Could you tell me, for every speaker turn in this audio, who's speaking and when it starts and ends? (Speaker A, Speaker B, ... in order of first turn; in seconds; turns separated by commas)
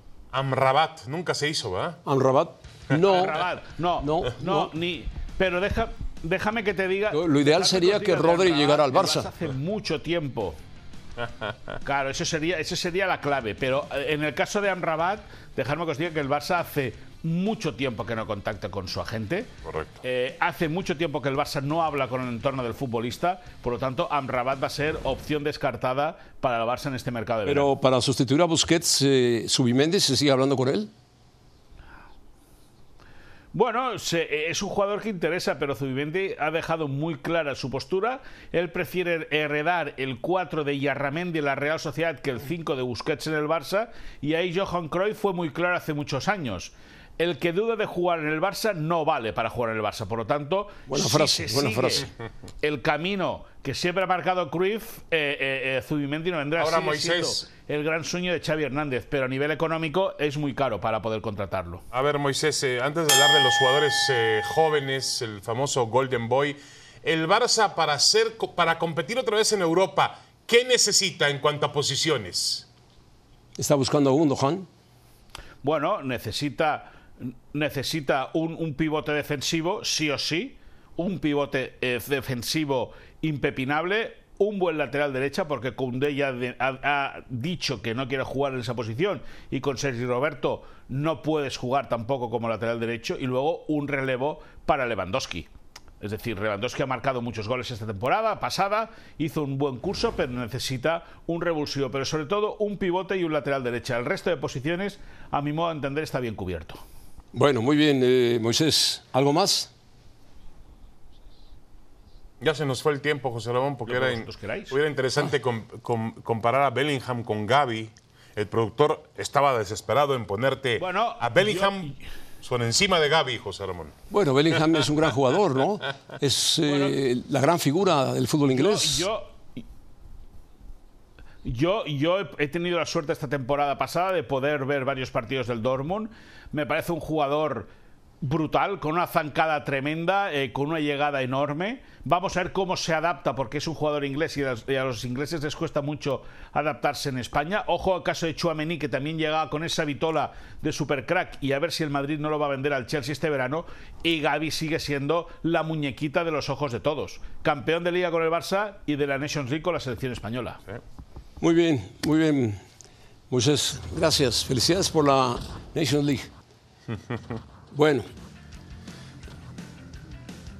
Speaker A: 0.3-2.0, Speaker B: 2.0-3.4, Speaker C: 3.0-10.6, Speaker B: 4.0-4.7, Speaker B: 7.1-9.3, Speaker A: 11.2-11.8, Speaker C: 11.8-27.7, Speaker A: 19.6-20.0, Speaker B: 27.4-30.9, Speaker C: 33.5-52.1, Speaker B: 50.9-52.1, Speaker C: 52.6-61.8, Speaker A: 56.6-57.5, Speaker A: 61.9-72.7, Speaker B: 73.6-74.7, Speaker C: 75.6-95.5, Speaker C: 96.0-106.8, Speaker B: 107.3-109.7, Speaker A: 112.4-123.9, Speaker C: 113.9-114.8, Speaker C: 120.8-121.9, Speaker B: 124.1-129.1, Speaker C: 126.7-127.0, Speaker C: 128.5-129.4, Speaker C: 131.4-137.7, Speaker C: 138.2-160.6, Speaker B: 161.4-162.6, Speaker B: 163.3-166.3, Speaker B: 167.7-168.1